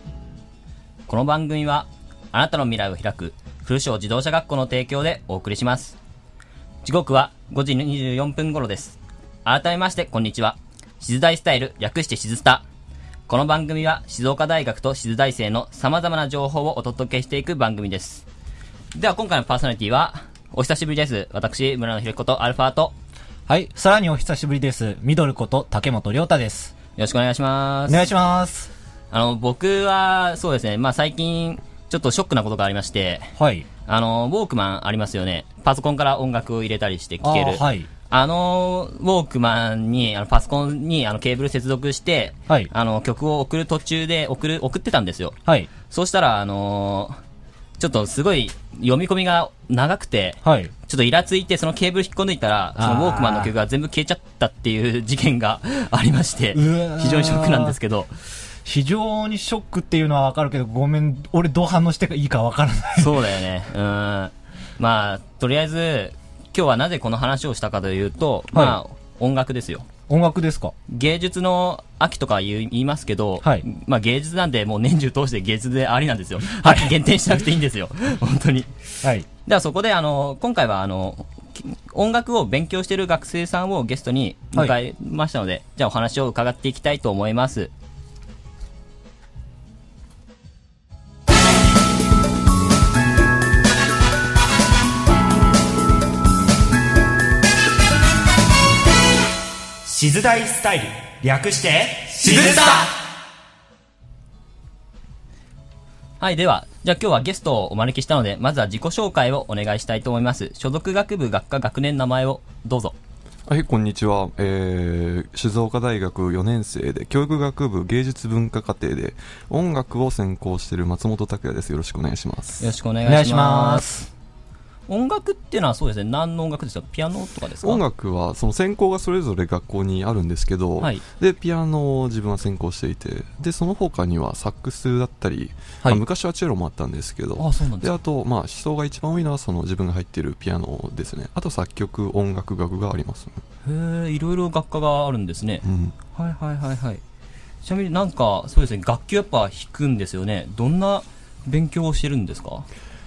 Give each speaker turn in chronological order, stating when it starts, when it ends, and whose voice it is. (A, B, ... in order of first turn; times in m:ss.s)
0:01.1-0:06.0 A
0:06.8-0:12.6 A
0:13.3-0:18.2 A
0:18.9-0:22.9 A
0:23.5-0:26.7 B
0:27.0-0:28.0 A
0:27.9-0:28.7 B
0:29.1-0:33.3 A
0:33.4-0:33.6 B
0:33.8-0:45.3 A
0:37.2-0:37.9 B
0:45.9-0:47.2 A
0:47.8-0:58.1 A
0:50.4-0:50.7 B
0:52.8-0:53.5 B
0:56.5-0:57.8 B
0:58.6-1:03.2 B
1:03.0-1:09.8 A
1:08.5-1:08.8 B
1:10.1-1:10.7 B
1:10.9-1:27.7 A
1:16.6-1:16.9 B
1:39.8-1:42.9 C
1:46.2-1:53.0 A
1:53.5-2:02.7 D
2:02.6-2:03.9 A
2:03.0-2:04.1 B
2:04.9-2:07.8 A
2:07.6-2:23.4 D
2:17.4-2:18.0 A
2:23.6-2:27.0 A
2:25.6-2:25.9 D
2:27.6-2:32.7 A